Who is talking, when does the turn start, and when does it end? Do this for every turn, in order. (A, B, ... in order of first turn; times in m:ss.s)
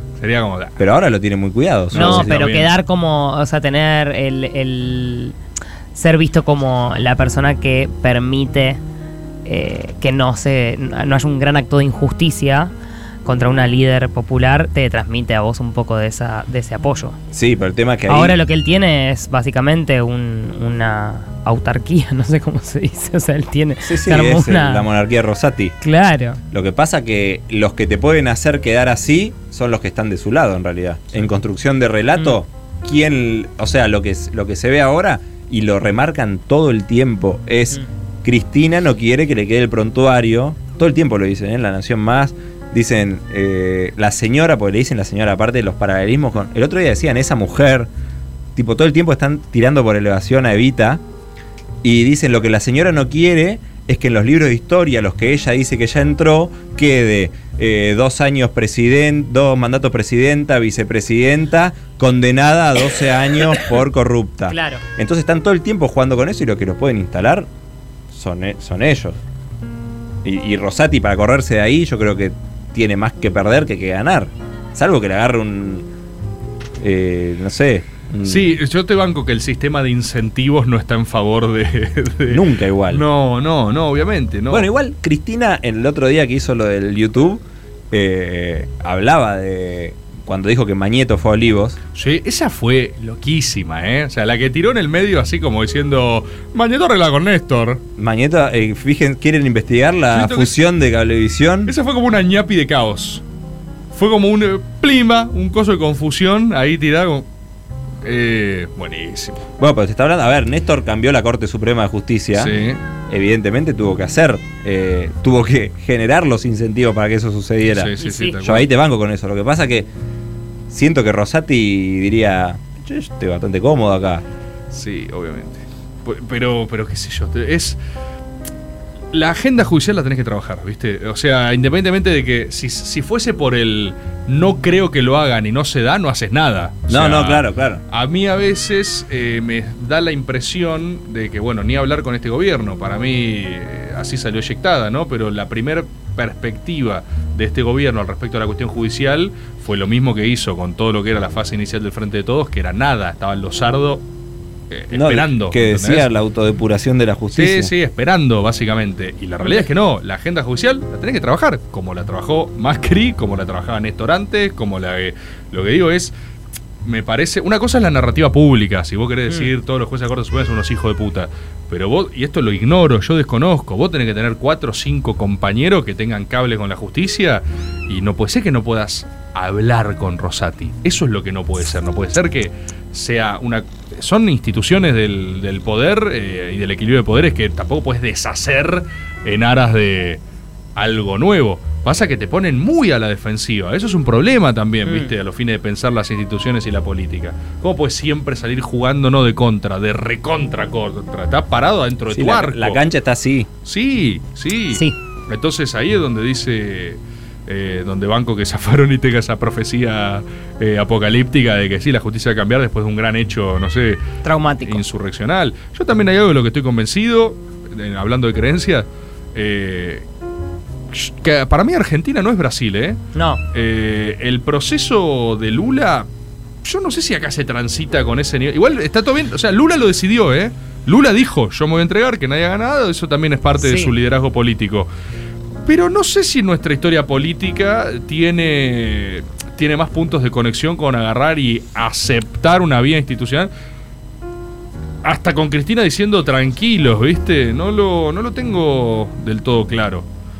0:00.2-0:00.8 A
0:00.8-0:02.4 B
0:01.9-0:02.8 A
0:01.9-0:05.4 C
0:05.9-0:08.8 C
0:09.4-0:12.7 C
0:13.2-0:17.2 C
0:17.3-0:18.4 B
0:18.1-0:24.9 C
0:23.8-0:25.8 B
0:25.8-0:26.4 C
0:26.5-0:47.9 B
0:48.6-0:51.0 B
0:51.8-1:07.5 B
1:04.5-1:04.8 C
1:08.1-1:09.2 B
1:10.2-1:15.9 B
1:16.8-1:18.5 B
1:18.2-1:24.7 A
1:22.3-1:23.0 B
1:24.5-1:31.8 B
1:32.0-1:37.8 A
1:38.0-1:41.8 B
1:40.1-1:40.6 A
1:41.7-1:43.2 A
1:43.9-1:47.3 A
1:48.0-1:49.4 A
1:49.6-1:52.6 B
1:52.4-1:52.8 A
1:53.1-1:59.9 B
1:57.7-1:58.7 A
1:58.0-1:58.4 C
2:00.7-2:04.2 B
2:04.7-2:07.8 A
2:09.1-2:34.0 A
2:16.9-2:17.8 B
2:34.7-2:36.1 A
2:34.9-2:37.7 B
2:37.4-2:46.1 A
2:46.8-3:10.2 A
3:10.8-3:22.8 A
3:14.8-3:15.1 C
3:22.1-3:23.5 B
3:23.6-3:34.0 A
3:34.2-3:34.8 C
3:34.6-3:40.1 A
3:40.9-3:43.0 A
3:43.2-3:43.4 C
3:43.5-3:46.1 A
3:46.6-3:54.9 A
3:53.6-3:53.9 C
3:55.7-4:03.5 A
4:05.0-4:10.1 A